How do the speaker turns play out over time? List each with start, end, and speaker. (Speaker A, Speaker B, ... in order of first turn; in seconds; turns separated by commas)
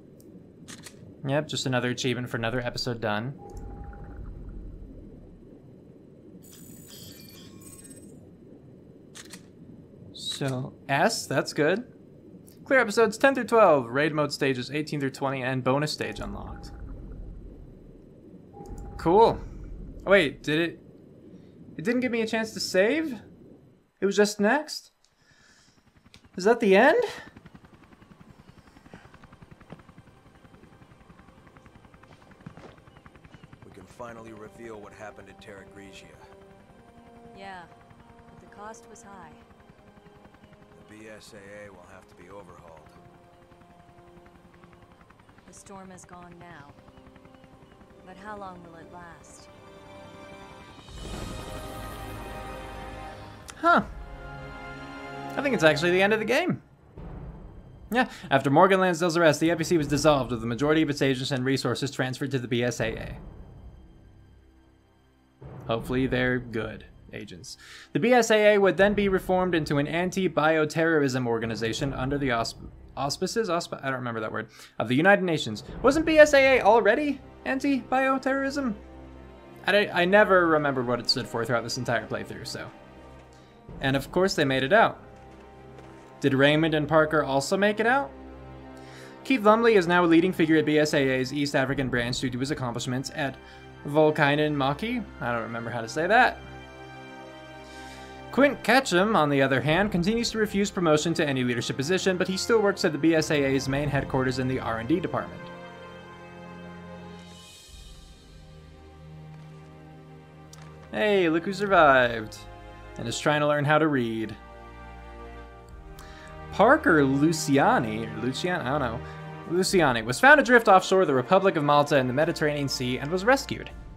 Speaker A: 1.2-3.4, Speaker A: 10.1-11.9, Speaker A: 12.7-16.7, Speaker A: 19.0-19.4, Speaker A: 20.1-20.8, Speaker A: 21.8-23.2, Speaker A: 24.0-24.9, Speaker A: 26.4-27.1, Speaker B: 33.6-36.3, Speaker C: 37.3-37.7, Speaker C: 38.3-39.4, Speaker B: 40.7-43.0, Speaker C: 45.5-46.8, Speaker C: 48.0-49.5, Speaker A: 53.6-53.9, Speaker A: 55.4-56.6, Speaker A: 57.9-63.2, Speaker A: 65.7-78.8, Speaker A: 79.6-82.7, Speaker A: 83.8-85.0, Speaker A: 86.2-88.1, Speaker A: 89.2-96.4, Speaker A: 98.3-105.5, Speaker A: 110.9-112.5, Speaker A: 113.0-114.4, Speaker A: 116.5-123.7